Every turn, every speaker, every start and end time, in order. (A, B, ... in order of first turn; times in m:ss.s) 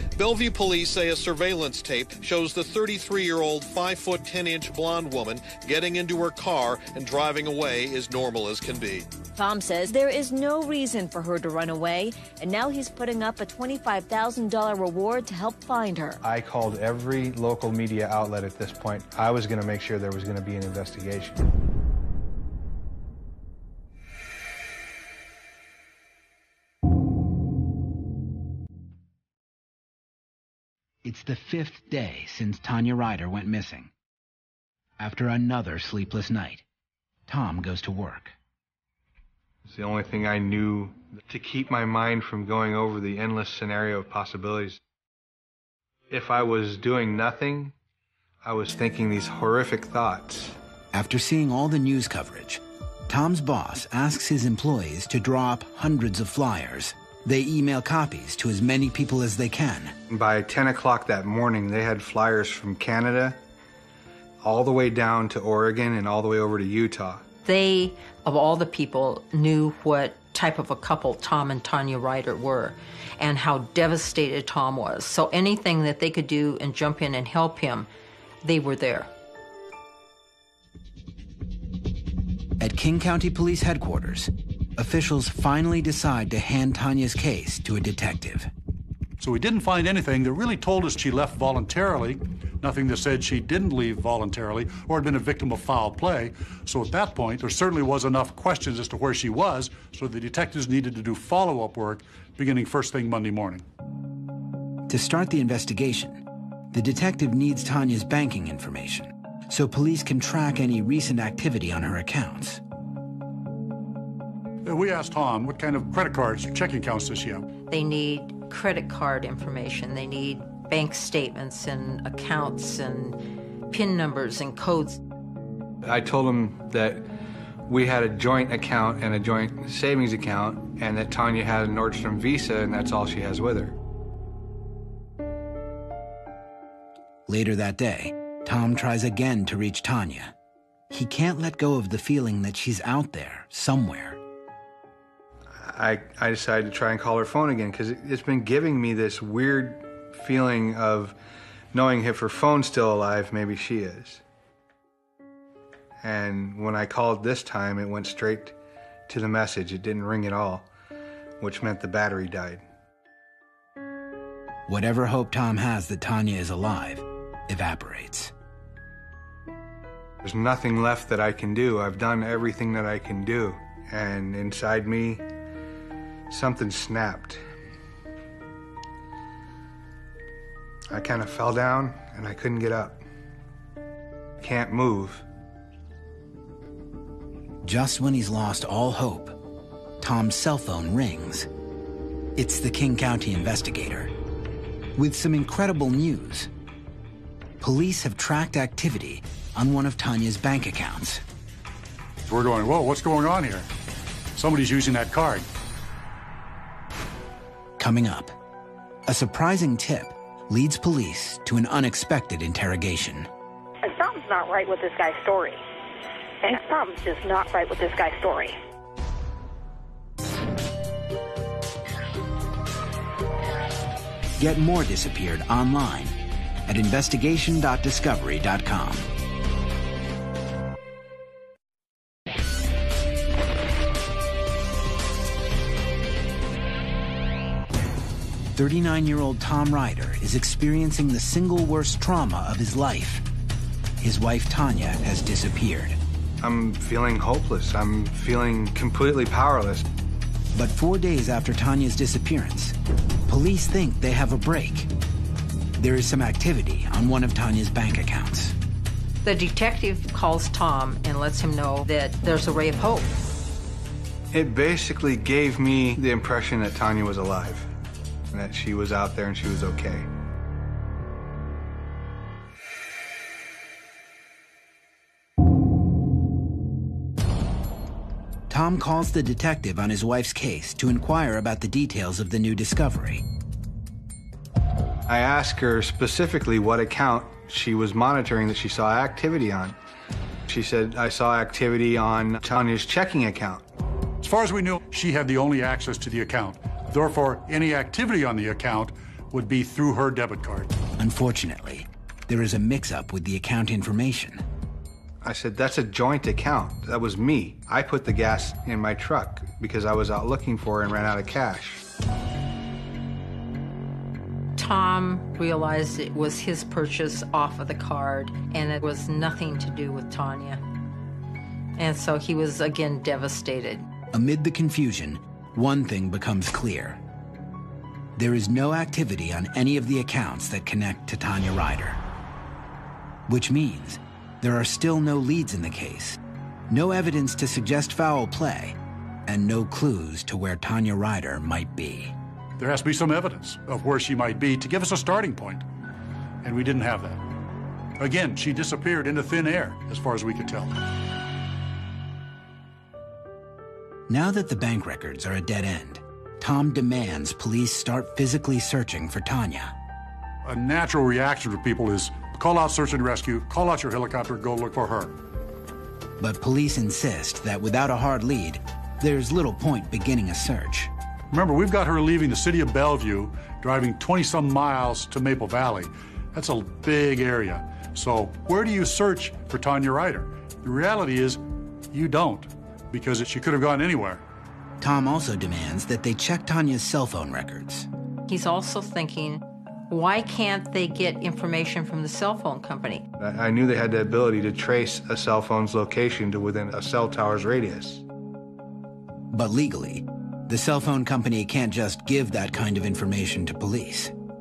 0:00.2-0:09.1 A
0:09.4-0:16.2 B
0:16.2-0:21.4 C
0:31.0-0:33.9 D
0:35.0-0:36.6 D
0:37.3-0:38.4 D
0:39.7-0:44.8 C
0:46.1-0:47.7 C
0:48.4-0:50.6 C
0:50.9-1:00.0 D
1:00.1-1:03.4 C
1:04.4-1:07.2 C
1:07.4-1:17.9 E
1:18.4-1:19.1 E
1:22.6-1:28.5 D
1:29.2-1:43.6 F
1:44.9-1:52.6 D
1:54.6-1:57.4 F
1:57.7-2:03.2 E
2:03.7-2:05.0 E
2:05.8-2:07.1 C
2:07.7-2:13.8 C
2:17.3-2:20.3 D
2:20.9-2:24.2 D
2:25.6-2:31.2 C
2:31.7-2:34.2 C
2:36.0-2:38.6 C
2:39.1-2:40.7 C
2:41.4-2:42.6 C
2:44.7-2:48.3 D
2:50.2-2:55.2 C
2:56.3-2:57.4 C
3:00.9-3:03.0 C
3:04.4-3:05.2 C
3:07.6-3:09.4 D
3:10.0-3:11.5 D
3:12.4-3:14.1 D
3:15.0-3:16.5 D
3:17.6-3:21.2 D
3:22.3-3:23.7 F
3:24.4-3:25.4 F
3:27.8-3:28.4 D
3:29.1-3:33.3 D
3:33.8-3:35.6 G
3:36.4-3:38.6 G
3:44.4-3:46.2 D
3:46.7-3:49.1 D
3:58.5-4:03.2 D
4:04.0-4:06.0 D
4:06.4-4:09.9 C
4:10.5-4:12.8 D
4:13.3-4:14.9 D
4:15.8-4:18.6 D
4:19.2-4:23.1 E
4:24.3-4:27.7 C
4:28.3-4:30.1 C
4:38.5-4:43.2 D
4:45.1-4:49.8 C
4:50.5-4:53.6 C
4:54.2-5:00.7 F
5:01.0-5:04.4 D
5:05.2-5:11.8 C
5:14.6-5:20.6 E
5:21.8-5:23.9 E
5:24.1-5:27.0 D
5:28.2-5:32.0 D
5:33.3-5:42.2 D
5:42.6-5:45.6 F
5:46.4-5:47.2 F
5:48.0-5:50.8 F
5:54.1-5:59.8 D
6:00.4-6:05.1 F
6:06.2-6:10.9 D
6:11.3-6:21.4 F
6:21.9-6:24.2 F
6:24.8-6:27.9 D
6:28.3-6:33.1 E
6:33.2-6:38.0 C
6:39.3-6:44.1 D